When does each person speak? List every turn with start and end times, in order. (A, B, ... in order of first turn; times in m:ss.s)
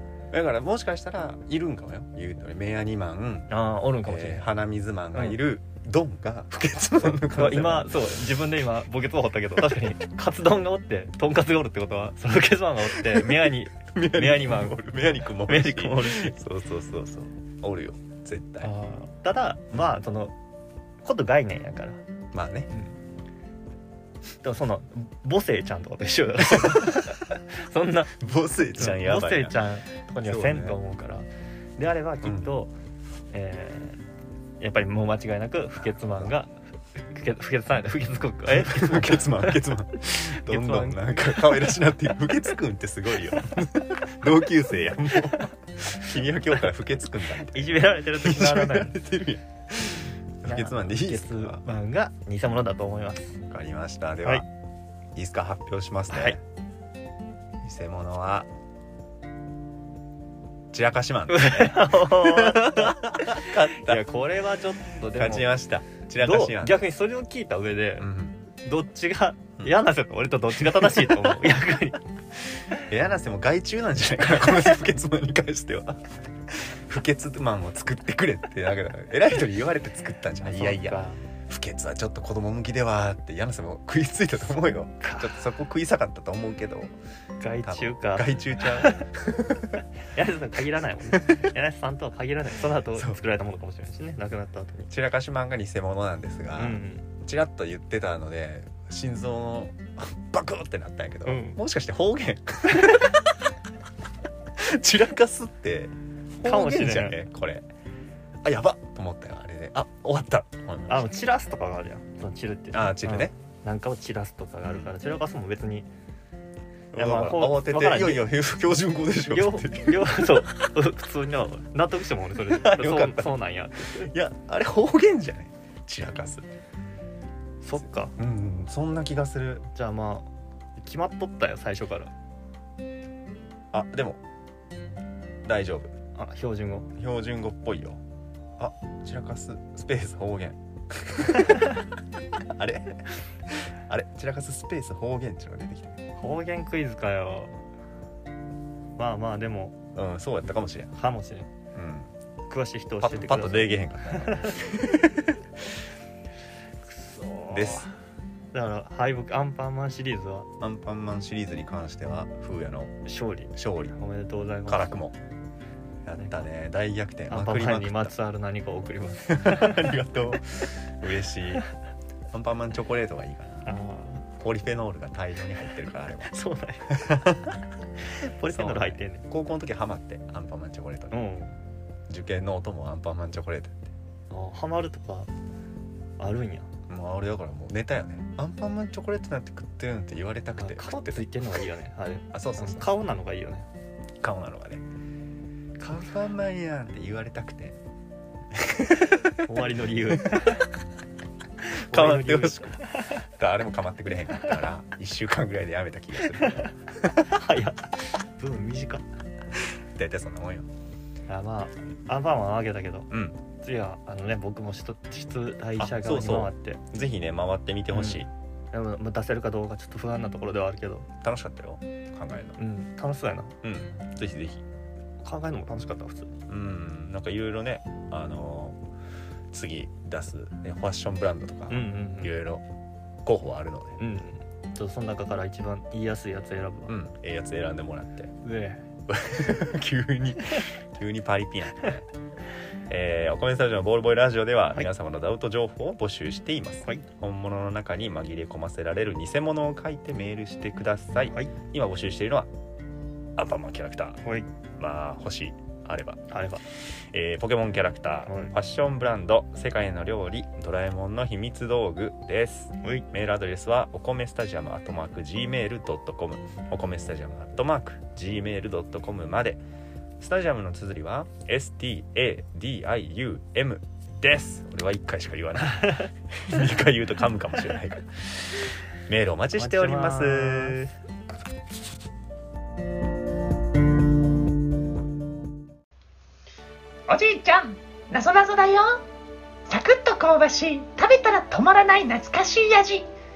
0:00.3-0:03.5 A
0:03.5-0:04.5 B
0:04.0-0:08.1 A
0:05.1-0:05.4 B
0:07.3-0:16.4 B
0:13.0-0:18.7 A
0:18.6-0:20.4 B
0:21.0-0:22.0 B
0:22.3-0:22.7 A
0:22.7-0:23.0 B
0:24.4-0:28.2 B
0:26.6-0:27.0 A
0:28.2-0:29.6 A
0:28.8-0:32.7 B
0:30.2-0:30.8 A
0:32.2-0:32.5 A
0:33.3-0:34.0 B
0:34.6-0:41.6 B
0:38.5-0:51.7 A
0:47.5-0:49.0 B
0:50.4-0:53.4 B
0:53.5-0:54.5 A
0:55.1-0:56.4 A
0:56.1-0:56.4 B
0:57.6-0:58.5 A
1:00.7-1:04.0 A
1:01.3-1:05.6 B
1:05.1-1:06.8 A
1:06.2-1:08.1 B
1:08.0-1:08.4 A
1:08.6-1:12.0 B
1:10.6-1:11.4 A
1:12.8-1:26.9 A
1:20.4-1:21.2 B
1:25.0-1:25.3 B
1:27.4-1:29.1 B
1:27.6-1:29.8 A
1:30.0-1:34.9 B
1:31.1-1:31.4 A
1:32.9-1:33.2 A
1:34.9-1:43.3 A
1:36.6-1:37.1 B
1:41.3-1:41.6 B
1:44.6-1:47.7 A
1:46.4-1:47.2 B
1:48.4-1:51.1 A
1:50.9-1:55.9 B
1:52.7-1:53.3 A
1:56.9-2:00.5 A
1:56.9-1:58.3 B
1:59.3-2:04.1 B
2:02.5-2:06.5 A
2:07.6-2:08.2 B
2:08.2-2:09.7 A
2:09.7-2:12.1 B
2:13.7-2:14.2 A
2:15.4-2:15.9 A
2:16.2-2:16.9 B
2:16.9-2:18.0 A
2:18.6-2:21.8 A
2:22.4-2:26.0 A
2:26.2-2:27.6 B
2:29.0-2:29.8 B
2:29.9-2:30.9 A
2:30.9-2:31.5 B
2:31.7-2:32.1 A
2:32.5-2:34.6 B
2:33.0-2:35.4 A
2:36.8-2:37.9 B
2:37.5-2:37.9 A
2:38.5-2:40.5 B
2:40.6-2:43.0 A
2:43.1-2:44.9 B
2:43.5-2:44.0 A
2:44.7-2:45.2 A
2:46.0-2:48.2 A
2:46.2-2:46.4 B
2:47.3-2:49.9 B
2:49.3-2:51.6 A
2:52.3-2:53.7 A
2:53.7-2:54.2 B
2:54.3-2:56.3 A
2:56.3-2:57.1 B
2:56.9-2:57.6 A
2:58.0-2:59.2 B
2:58.5-3:01.2 A
3:01.1-3:01.6 B
3:02.1-3:03.9 A
3:04.3-3:05.3 B
3:06.2-3:06.7 B
3:06.9-3:11.3 A
3:10.6-3:13.7 B
3:12.3-3:12.9 A
3:14.2-3:14.8 A
3:15.8-3:17.8 A
3:18.6-3:19.0 A
3:19.4-3:20.7 B
3:21.7-3:23.2 B
3:21.9-3:27.2 A
3:26.4-3:26.7 B
3:27.2-3:29.0 B
3:29.9-3:30.7 A
3:31.3-3:36.8 B
3:33.1-3:33.4 A
3:35.8-3:38.3 A
3:37.9-3:41.1 B
3:41.2-3:42.6 A
3:42.6-3:43.5 B
3:43.6-3:44.6 A
3:45.2-3:46.3 B
3:46.5-3:48.8 A
3:49.5-3:52.7 A
3:51.7-3:52.3 B
3:53.2-3:54.1 A
3:54.0-3:56.9 B
3:56.9-3:58.4 A
3:58.4-3:58.8 B
3:59.1-4:02.1 A
4:02.9-4:12.5 A
4:11.3-4:11.5 B
4:13.4-4:14.2 A
4:14.8-4:16.2 A
4:16.3-4:16.6 B
4:16.9-4:29.6 A
4:18.3-4:18.5 B
4:22.8-4:23.1 B
4:30.2-4:38.5 A
4:35.8-4:36.1 B
4:39.1-4:40.8 A
4:39.6-4:40.9 B
4:47.1-4:49.0 C
4:49.7-4:53.1 C